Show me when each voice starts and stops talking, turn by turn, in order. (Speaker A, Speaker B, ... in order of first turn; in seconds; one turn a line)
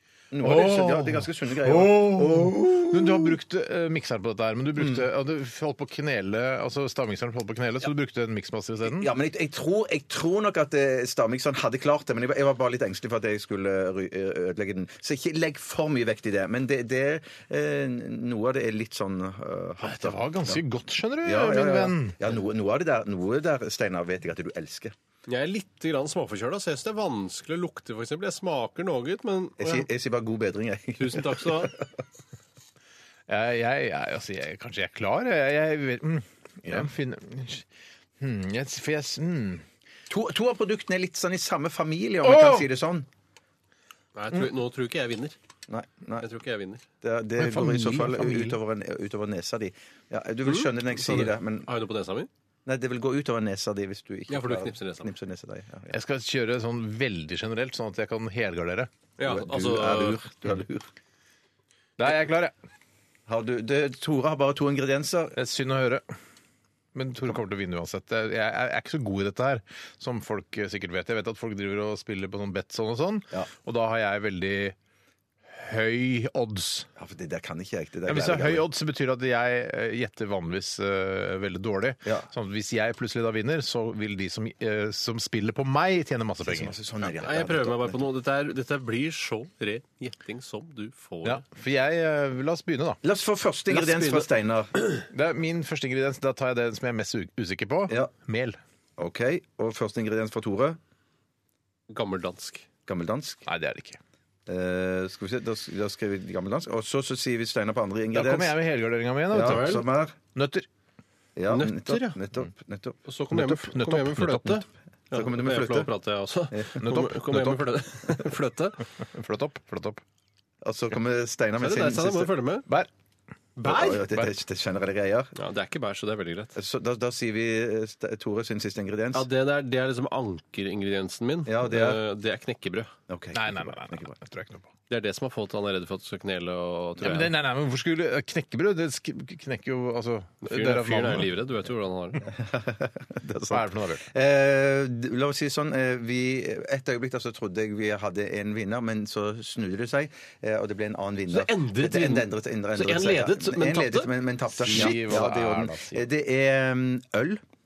Speaker A: 0.3-3.3
Speaker B: 0.4-9.1
Speaker A: 4.8-5.0
Speaker A: 8.8-20.6
Speaker B: 19.8-22.2
Speaker A: 21.2-24.9
Speaker C: 25.3-29.9
Speaker A: 29.6-31.9
Speaker C: 31.0-31.7
Speaker B: 33.3-37.7
Speaker A: 36.6-36.9
Speaker B: 38.2-39.6
Speaker A: 40.1-43.1
Speaker B: 42.2-42.7
Speaker C: 44.1-45.4
Speaker A: 45.7-46.3
Speaker C: 46.2-46.8
Speaker A: 47.0-51.7
Speaker B: 47.4-48.6
Speaker C: 50.4-52.3
Speaker A: 52.7-56.0
Speaker C: 54.3-55.1
Speaker B: 55.9-58.9
Speaker C: 59.2-60.2
Speaker A: 59.2-60.9
Speaker B: 62.0-62.5
Speaker A: 63.3-65.4
Speaker B: 65.3-66.0
Speaker B: 66.9-74.8
Speaker B: 75.5-76.9
Speaker A: 77.0-78.7
Speaker B: 78.1-86.7
Speaker A: 86.4-88.0
Speaker C: 87.2-91.4
Speaker B: 91.2-93.0
Speaker A: 93.0-94.7
Speaker C: 93.7-94.3
Speaker B: 95.1-98.6
Speaker A: 99.0-100.8
Speaker C: 101.9-102.7
Speaker A: 102.9-103.5
Speaker B: 103.5-104.0
Speaker A: 104.5-108.6
Speaker B: 108.1-110.7
Speaker A: 109.3-110.2
Speaker C: 109.3-109.8
Speaker A: 111.4-113.0
Speaker C: 111.5-112.2
Speaker C: 113.0-118.8
Speaker B: 113.3-114.6
Speaker A: 115.1-115.9
Speaker A: 116.5-116.8
Speaker B: 116.8-117.6
Speaker B: 119.0-120.0
Speaker A: 120.6-122.3
Speaker C: 121.6-122.7
Speaker C: 123.6-124.3
Speaker A: 123.7-125.3
Speaker C: 125.3-126.6
Speaker A: 126.6-129.3
Speaker C: 129.1-132.9
Speaker A: 131.5-132.0
Speaker A: 133.1-134.1
Speaker B: 133.3-134.7
Speaker C: 134.9-137.3
Speaker B: 137.0-141.3
Speaker C: 140.4-142.3
Speaker A: 142.2-157.4
Speaker B: 143.5-144.1
Speaker C: 151.3-154.1
Speaker B: 154.6-156.0
Speaker C: 154.7-155.0